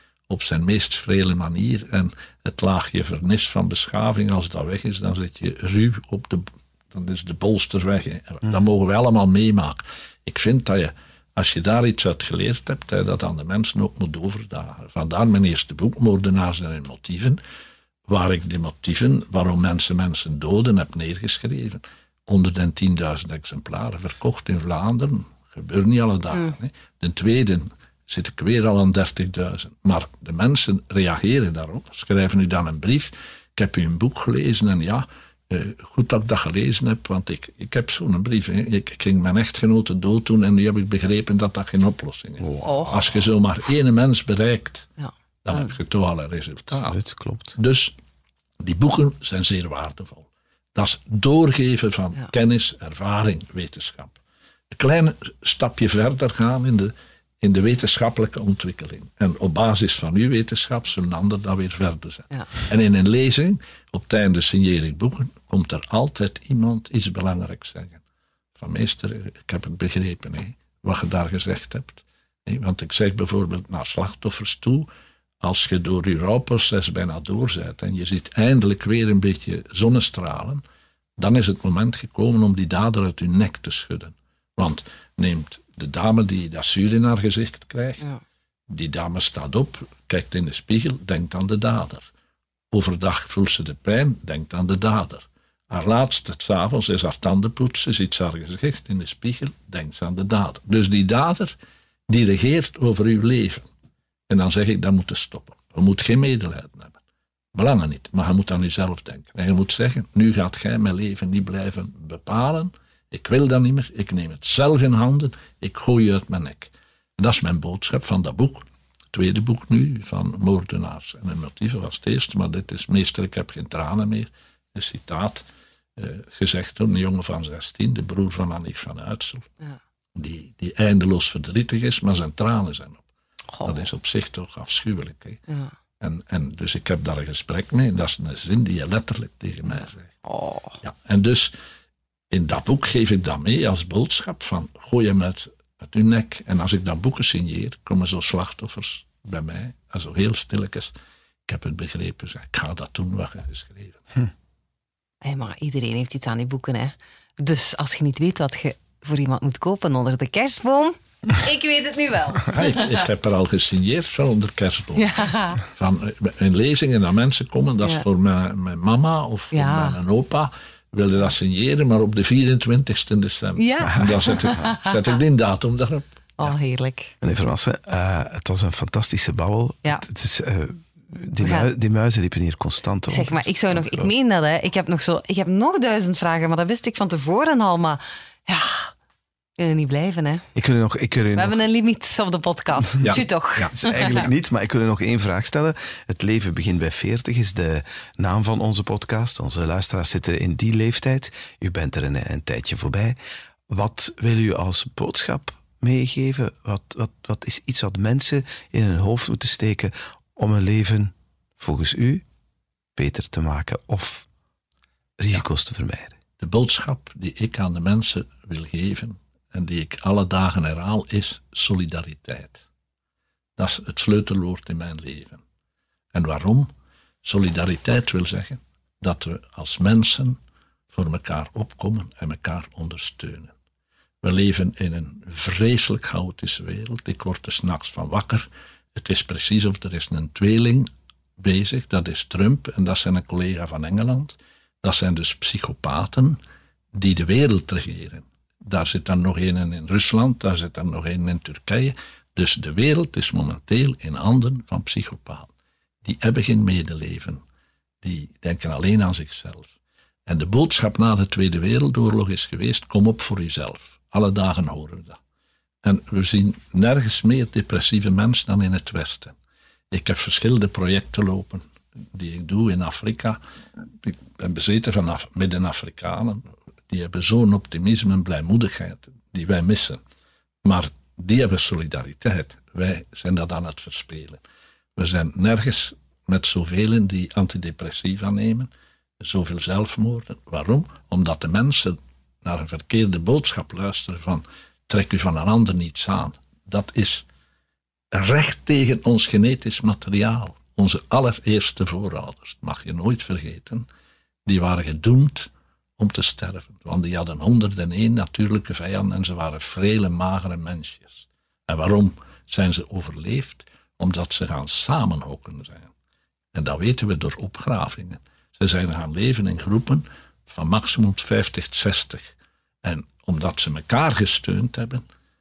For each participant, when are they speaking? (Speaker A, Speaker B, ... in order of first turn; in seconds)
Speaker A: 0.3-17.4, 18.1-44.9, 45.4-47.0, 47.5-47.9, 48.6-54.1, 54.7-68.0, 68.6-74.9, 75.4-80.6, 81.2-88.0, 88.7-92.0, 92.7-101.5, 102.1-103.7, 104.3-107.0, 107.5-125.4, 126.0-129.4, 130.1-133.0, 133.6-135.4, 136.0-140.1, 140.8-141.5, 142.3-150.9, 151.5-154.0, 162.5-176.5, 193.0-193.7, 216.4-222.6, 223.6-225.4, 226.1-226.7, 227.2-230.4, 230.9-233.5, 234.2-246.4, 246.9-255.5, 256.0-257.4, 258.0-259.7, 260.3-265.2, 265.8-269.3, 269.9-273.4, 274.0-280.0, 280.6-284.4, 284.9-297.2, 298.1-303.9, 304.4-315.9, 316.5-322.3, 322.8-325.0
Speaker B: 42.4-42.8, 46.7-47.5, 173.8-174.1, 177.2-184.1, 190.5-191.6, 193.7-203.2, 203.7-212.2, 212.9-214.2, 215.2-216.2
Speaker C: 42.6-43.0, 45.0-45.7, 133.5-133.8, 139.7-140.8, 155.2-163.0, 164.9-165.6, 169.5-170.0, 173.6-175.0, 176.4-177.1, 181.4-181.7, 183.1-188.9, 189.6-190.4, 191.3-194.3